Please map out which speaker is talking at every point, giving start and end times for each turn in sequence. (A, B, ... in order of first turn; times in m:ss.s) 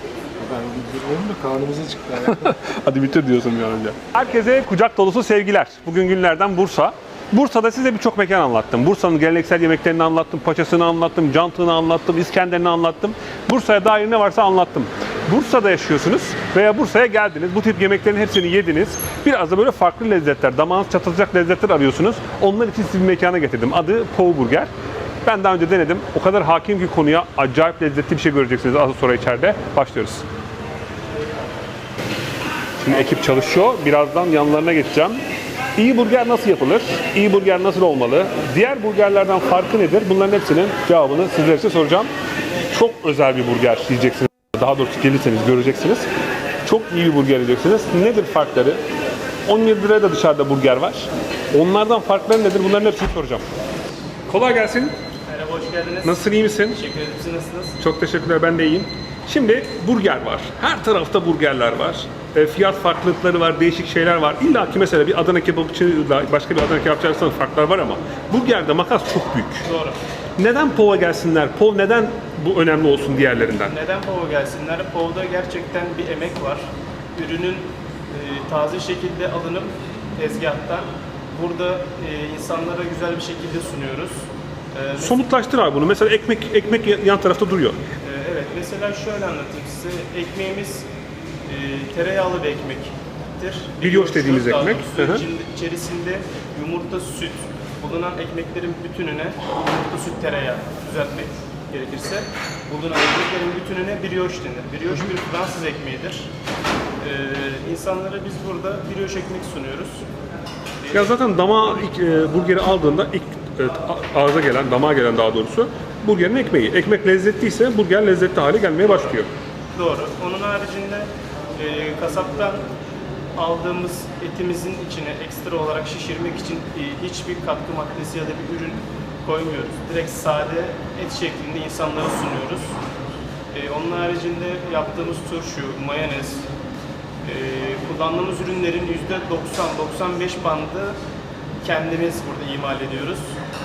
0:00.4-0:02.5 A
0:02.2-0:24.7 B
0:25.2-0:30.2 B
0:32.8-0:35.2 B
0:35.8-0:42.1 B
0:42.6-0:46.1 B
0:46.6-0:48.8 B
0:49.4-0:53.4 B
0:54.3-0:54.9 B
0:55.3-0:57.8 C
0:56.0-0:56.8 B
0:57.8-1:09.6 B
1:09.6-1:10.0 C
1:10.4-1:13.8 B
1:13.4-1:25.2 C
1:25.0-1:27.8 B
1:28.0-1:30.9 C
1:31.4-1:46.3 C
1:33.8-1:35.2 B
1:47.0-1:50.0 C
1:50.8-1:51.2 C
1:50.9-1:59.3 B
1:59.7-2:02.6 C
2:03.4-2:12.8 C
2:13.5-2:16.5 C
2:17.2-2:21.0 C
2:21.6-2:23.3 C